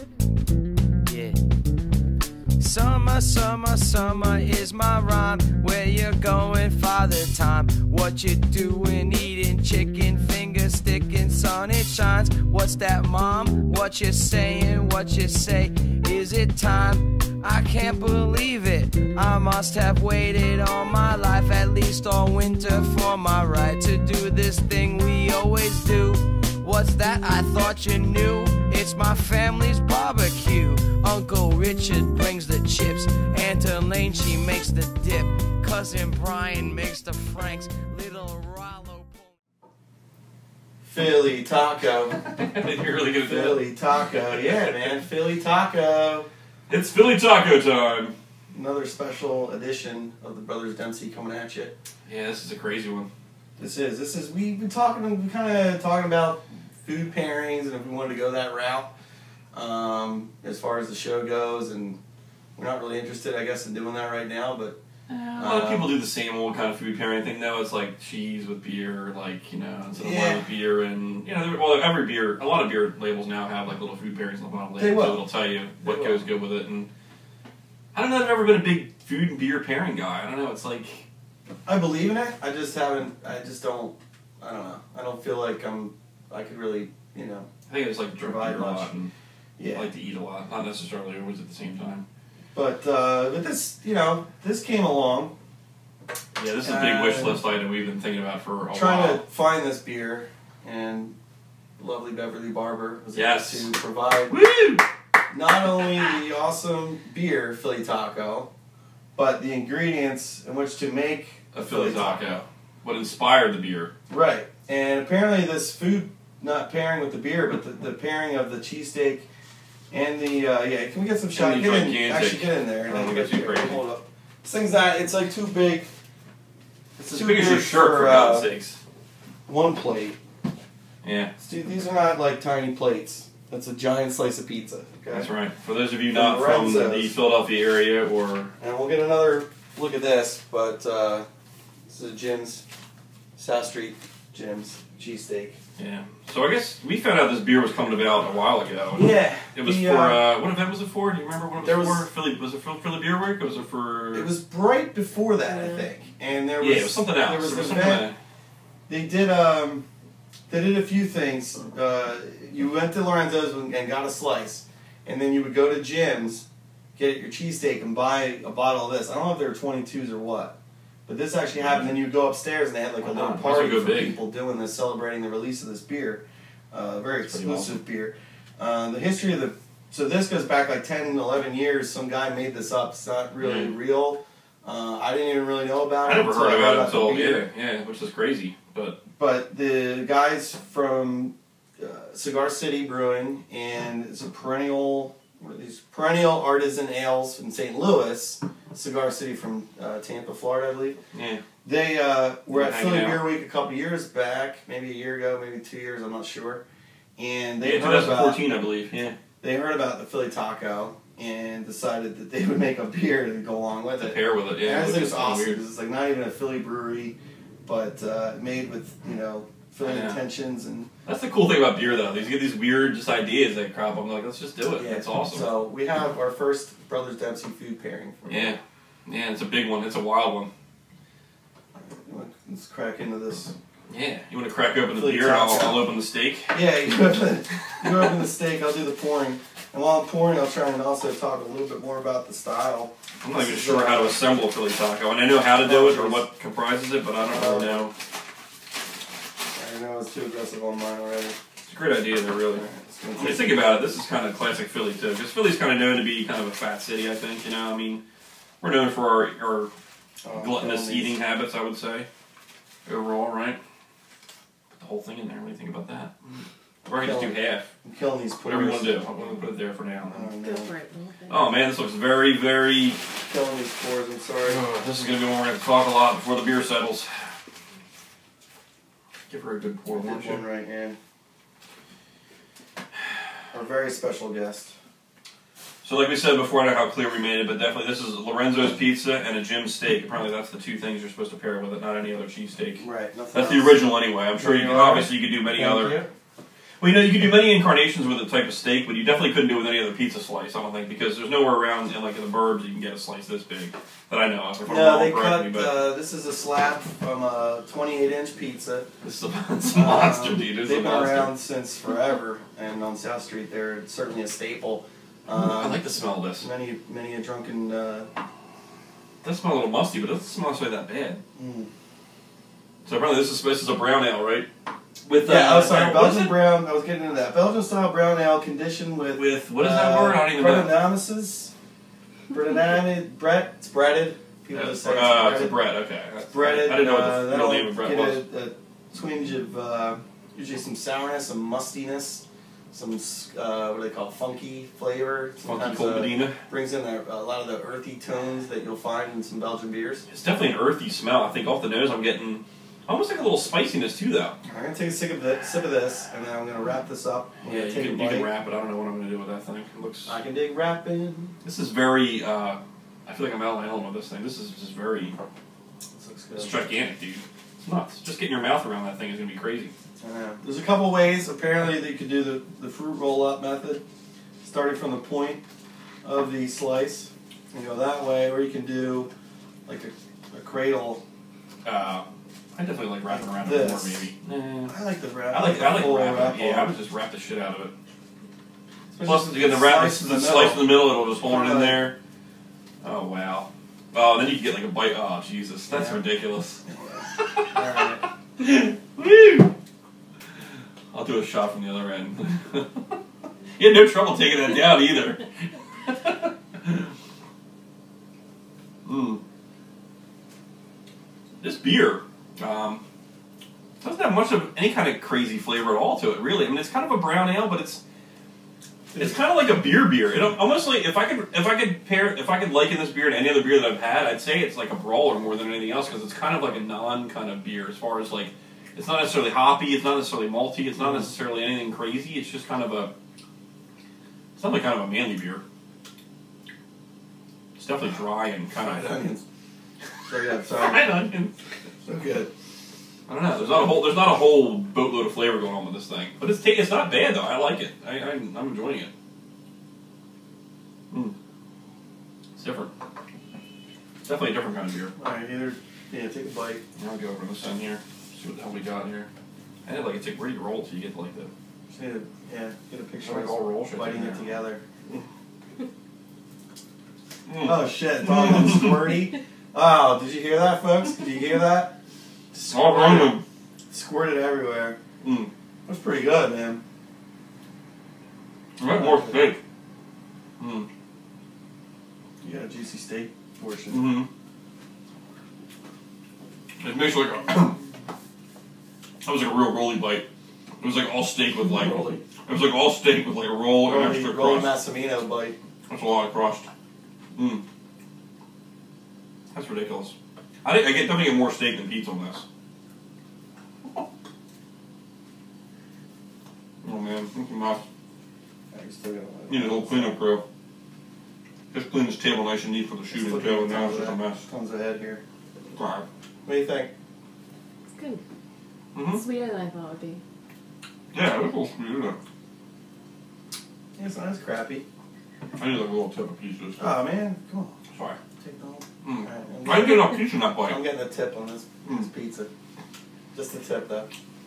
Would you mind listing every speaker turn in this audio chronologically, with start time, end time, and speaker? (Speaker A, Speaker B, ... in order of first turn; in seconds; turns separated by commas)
Speaker A: 1.0-1.4, Speaker A: 2.6-39.3, Speaker B: 40.8-42.2, Speaker C: 42.1-45.0, Speaker B: 43.2-46.3, Speaker C: 46.7-48.1, Speaker B: 48.5-51.8, Speaker C: 52.0-53.1, Speaker B: 53.6-58.9, Speaker B: 59.5-62.0, Speaker B: 62.5-64.8, Speaker C: 65.1-76.9, Speaker B: 65.4-66.0, Speaker B: 69.9-70.5, Speaker B: 74.8-75.2, Speaker B: 75.8-76.2, Speaker C: 77.9-81.0, Speaker B: 81.7-87.5, Speaker C: 87.7-89.1, Speaker B: 88.2-88.9, Speaker B: 89.6-89.9, Speaker C: 89.7-92.0, Speaker B: 92.5-95.3, Speaker C: 96.3-99.2, Speaker B: 96.6-97.4, Speaker B: 98.7-101.2, Speaker B: 101.8-104.4, Speaker C: 103.1-103.7, Speaker C: 104.3-104.9, Speaker B: 105.3-108.5, Speaker B: 109.1-112.4, Speaker C: 111.5-113.9, Speaker B: 114.1-119.3, Speaker B: 119.9-125.9, Speaker C: 121.3-123.8, Speaker B: 127.0-128.5, Speaker C: 127.1-128.8, Speaker B: 129.5-130.2, Speaker C: 131.0-131.3, Speaker B: 131.4-135.3, Speaker C: 135.1-138.5, Speaker B: 136.1-137.2, Speaker B: 138.6-141.2, Speaker B: 141.9-142.6, Speaker B: 143.3-145.6, Speaker C: 145.8-154.3, Speaker B: 148.9-150.3, Speaker B: 151.6-152.1, Speaker B: 154.1-158.1, Speaker C: 156.6-158.2, Speaker B: 158.9-159.8, Speaker B: 160.5-187.4, Speaker C: 171.6-172.0, Speaker C: 173.0-174.2, Speaker C: 177.3-177.8, Speaker C: 183.4-183.7, Speaker C: 186.0-189.0, Speaker B: 189.2-201.0, Speaker C: 201.1-201.4, Speaker B: 201.6-206.6, Speaker C: 202.5-203.3, Speaker B: 207.2-208.5, Speaker C: 207.6-209.2, Speaker B: 209.4-220.9, Speaker C: 214.0-215.6, Speaker C: 219.8-220.2, Speaker C: 221.1-225.5, Speaker B: 224.8-228.6, Speaker C: 228.2-230.5, Speaker B: 231.8-233.5, Speaker C: 233.9-236.8, Speaker B: 234.9-235.9, Speaker B: 236.5-244.3, Speaker C: 243.2-247.9, Speaker B: 245.6-246.2, Speaker B: 247.2-247.9, Speaker B: 249.5-251.4, Speaker C: 251.6-252.6, Speaker B: 252.5-253.8, Speaker C: 253.2-258.0, Speaker C: 258.6-259.7, Speaker B: 260.2-261.2, Speaker C: 260.3-262.1, Speaker C: 262.9-263.6, Speaker C: 264.7-267.7, Speaker B: 266.9-269.0, Speaker C: 268.4-270.3, Speaker B: 270.1-270.7, Speaker D: 270.4-271.6, Speaker C: 271.3-273.0, Speaker B: 273.2-274.7, Speaker C: 274.4-277.2, Speaker C: 279.3-280.4, Speaker B: 279.9-281.0, Speaker B: 283.5-284.7, Speaker C: 285.8-296.0, Speaker B: 292.8-293.8, Speaker B: 294.4-296.1, Speaker C: 296.8-305.8, Speaker B: 304.6-308.9, Speaker C: 309.0-311.3, Speaker B: 309.7-318.1, Speaker C: 315.3-316.5, Speaker C: 319.2-321.2, Speaker B: 321.3-321.7, Speaker C: 322.8-324.5, Speaker C: 325.0-326.5, Speaker B: 325.2-331.5, Speaker C: 329.1-330.8, Speaker B: 332.3-335.6, Speaker C: 334.5-338.2, Speaker B: 336.3-350.0, Speaker C: 345.4-346.4, Speaker C: 350.1-354.4, Speaker B: 354.4-358.3, Speaker C: 357.4-360.2, Speaker B: 360.0-361.3, Speaker C: 361.4-365.2, Speaker B: 365.9-366.6, Speaker C: 366.4-369.7, Speaker B: 370.0-373.8, Speaker B: 374.4-375.4, Speaker B: 376.0-379.1, Speaker B: 379.7-381.0, Speaker C: 381.6-384.7, Speaker B: 383.1-384.1, Speaker B: 384.7-386.7, Speaker C: 385.3-387.7, Speaker B: 388.9-391.9, Speaker C: 389.0-392.0, Speaker C: 392.8-396.6, Speaker B: 395.7-396.0, Speaker B: 396.6-398.1, Speaker C: 397.2-399.5, Speaker C: 400.9-403.0, Speaker C: 403.6-406.9, Speaker C: 408.8-409.2, Speaker C: 411.4-412.8, Speaker C: 413.8-417.8, Speaker C: 419.0-432.9, Speaker C: 434.3-435.4, Speaker C: 437.6-439.0, Speaker B: 438.5-439.2, Speaker B: 440.1-441.0, Speaker C: 440.5-441.3, Speaker B: 441.8-442.3, Speaker C: 443.1-448.9, Speaker C: 452.4-452.7, Speaker C: 454.0-454.9, Speaker B: 454.9-456.6, Speaker C: 456.8-459.1, Speaker C: 459.6-461.3, Speaker B: 461.7-464.6, Speaker C: 463.0-465.0, Speaker C: 467.3-468.8, Speaker B: 467.4-471.8, Speaker B: 472.3-473.2, Speaker C: 472.5-473.2, Speaker B: 473.7-474.8, Speaker C: 475.0-475.3, Speaker B: 475.6-476.6, Speaker C: 478.6-479.4, Speaker B: 478.6-479.3, Speaker C: 480.4-480.7, Speaker B: 482.2-484.0, Speaker C: 483.7-484.1, Speaker C: 486.6-487.6, Speaker C: 489.0-490.1, Speaker C: 490.6-494.5, Speaker B: 491.4-492.0, Speaker B: 493.6-495.4, Speaker C: 495.7-496.5, Speaker C: 497.1-497.4, Speaker C: 499.3-502.2, Speaker C: 506.6-507.6, Speaker B: 508.5-510.1, Speaker C: 509.3-510.2, Speaker C: 511.5-514.2, Speaker B: 512.9-515.0, Speaker C: 515.5-515.9, Speaker B: 516.2-516.7, Speaker D: 517.7-518.0, Speaker C: 518.7-519.0, Speaker D: 518.8-520.0, Speaker C: 520.9-522.0, Speaker B: 523.8-524.6, Speaker C: 525.4-526.7, Speaker B: 526.6-527.5, Speaker C: 527.7-528.0, Speaker B: 528.2-532.3, Speaker C: 528.8-530.6, Speaker B: 533.1-533.9